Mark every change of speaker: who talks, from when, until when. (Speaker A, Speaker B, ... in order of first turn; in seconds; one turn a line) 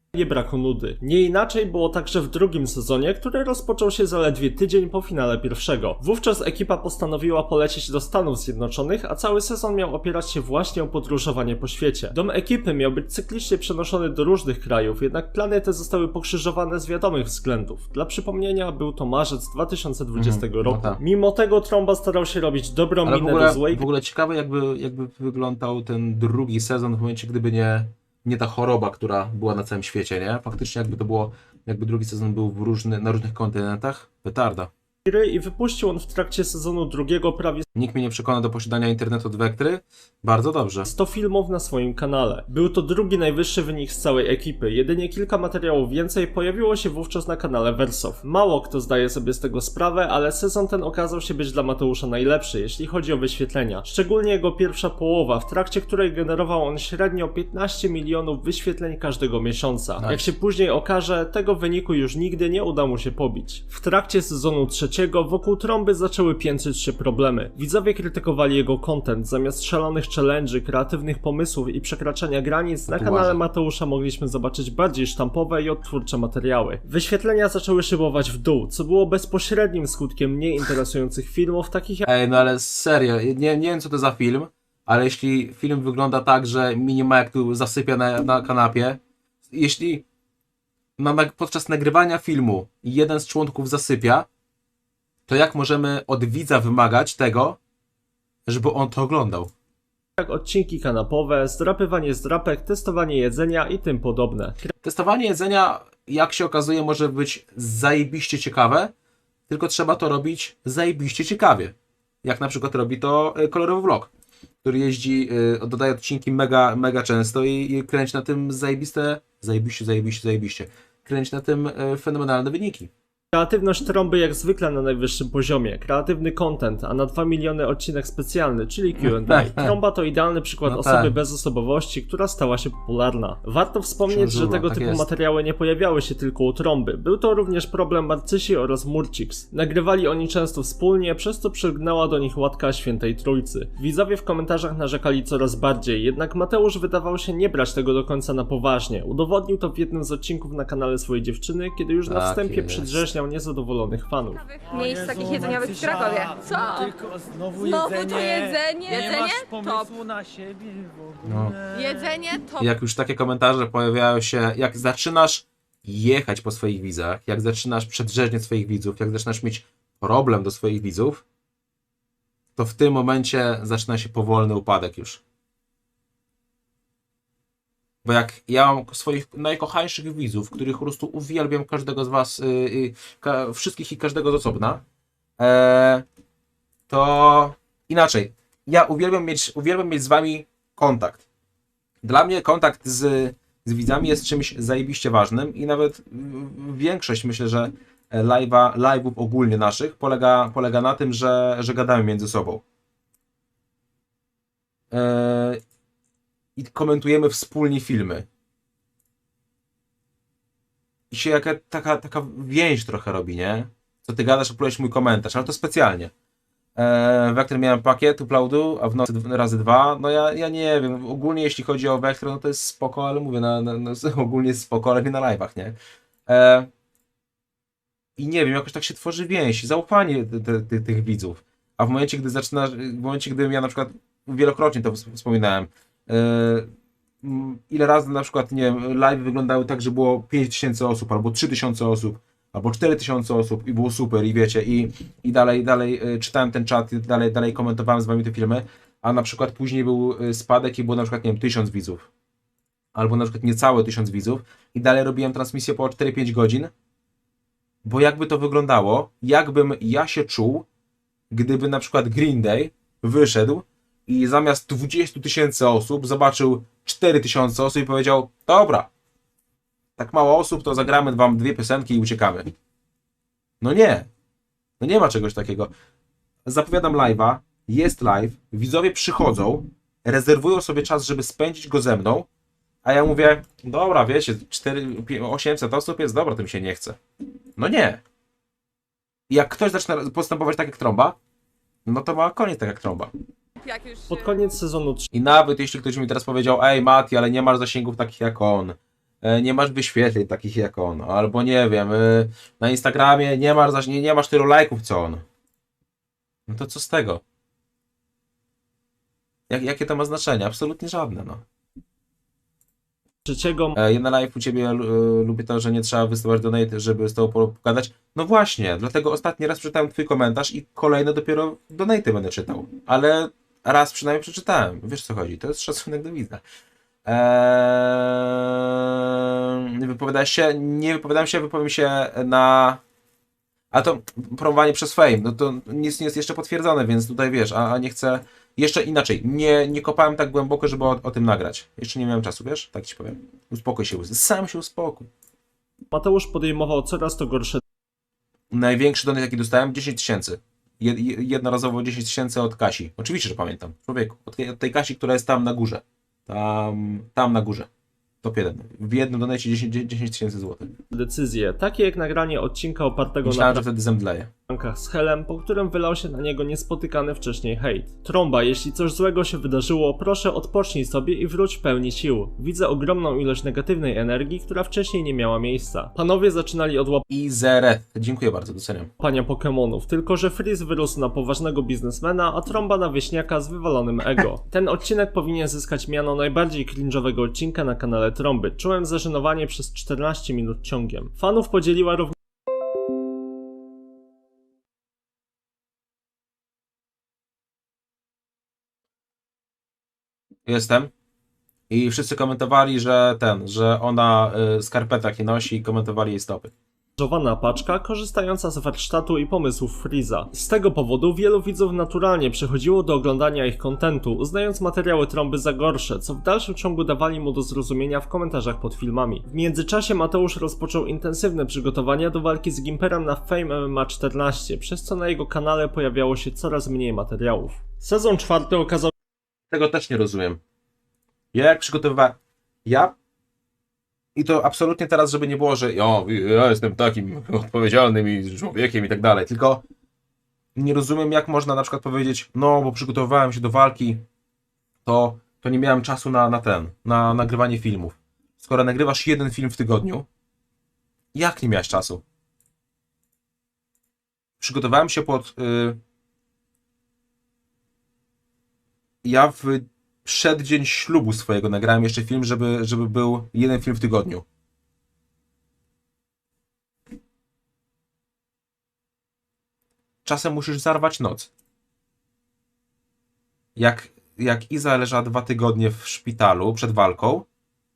Speaker A: 0.1-23.9
Speaker B: 20.1-21.0
Speaker B: 23.0-34.7
Speaker A: 35.0-37.7
Speaker B: 37.7-40.9
Speaker A: 40.9-82.1
Speaker B: 60.0-60.3
Speaker B: 72.9-73.4
Speaker B: 82.1-90.0
Speaker B: 91.0-94.3
Speaker B: 95.3-97.6
Speaker B: 98.5-99.5
Speaker A: 100.2-104.7
Speaker B: 104.8-108.9
Speaker B: 109.5-114.1
Speaker B: 114.6-122.9
Speaker A: 123.3-154.4
Speaker B: 129.0-129.8
Speaker B: 130.6-131.2
Speaker B: 134.1-135.1
Speaker B: 152.1-153.1
Speaker C: 154.4-156.9
Speaker D: 154.7-162.2
Speaker C: 157.6-159.9
Speaker B: 161.2-161.6
Speaker C: 161.7-162.7
Speaker B: 162.6-171.2
Speaker B: 172.6-175.2
Speaker B: 178.0-184.8
Speaker B: 185.4-186.0
Speaker B: 186.9-191.2
Speaker B: 192.0-202.6
Speaker B: 204.9-205.6
Speaker B: 206.6-208.3
Speaker B: 211.1-216.1
Speaker B: 216.8-226.7
Speaker B: 228.2-236.7
Speaker B: 237.2-252.1
Speaker B: 252.9-256.7
Speaker B: 257.8-260.6
Speaker B: 261.3-268.9
Speaker B: 270.0-272.5
Speaker B: 273.6-274.1
Speaker B: 274.8-275.7
Speaker B: 276.4-282.3
Speaker B: 282.8-287.0
Speaker B: 287.6-288.0
Speaker B: 289.3-291.2
Speaker B: 291.9-293.1
Speaker C: 293.6-294.4
Speaker A: 294.1-295.1
Speaker B: 295.1-305.2
Speaker B: 306.5-307.2
Speaker B: 309.5-311.4
Speaker A: 313.2-313.8
Speaker B: 313.7-326.4
Speaker B: 327.0-332.8
Speaker B: 333.7-345.1
Speaker A: 345.9-347.6
Speaker B: 348.5-357.7
Speaker B: 358.2-360.7
Speaker A: 360.9-363.6
Speaker B: 363.2-364.3
Speaker A: 364.5-377.0
Speaker B: 377.1-378.9
Speaker A: 379.0-392.1
Speaker B: 400.4-400.9
Speaker B: 401.7-406.5
Speaker A: 407.0-428.9
Speaker B: 429.5-430.4
Speaker B: 431.3-432.9
Speaker B: 434.1-439.6
Speaker B: 440.6-444.0
Speaker B: 444.8-450.1
Speaker B: 451.1-452.0
Speaker B: 454.4-455.8
Speaker B: 459.0-464.2
Speaker B: 470.0-471.3
Speaker B: 473.6-477.2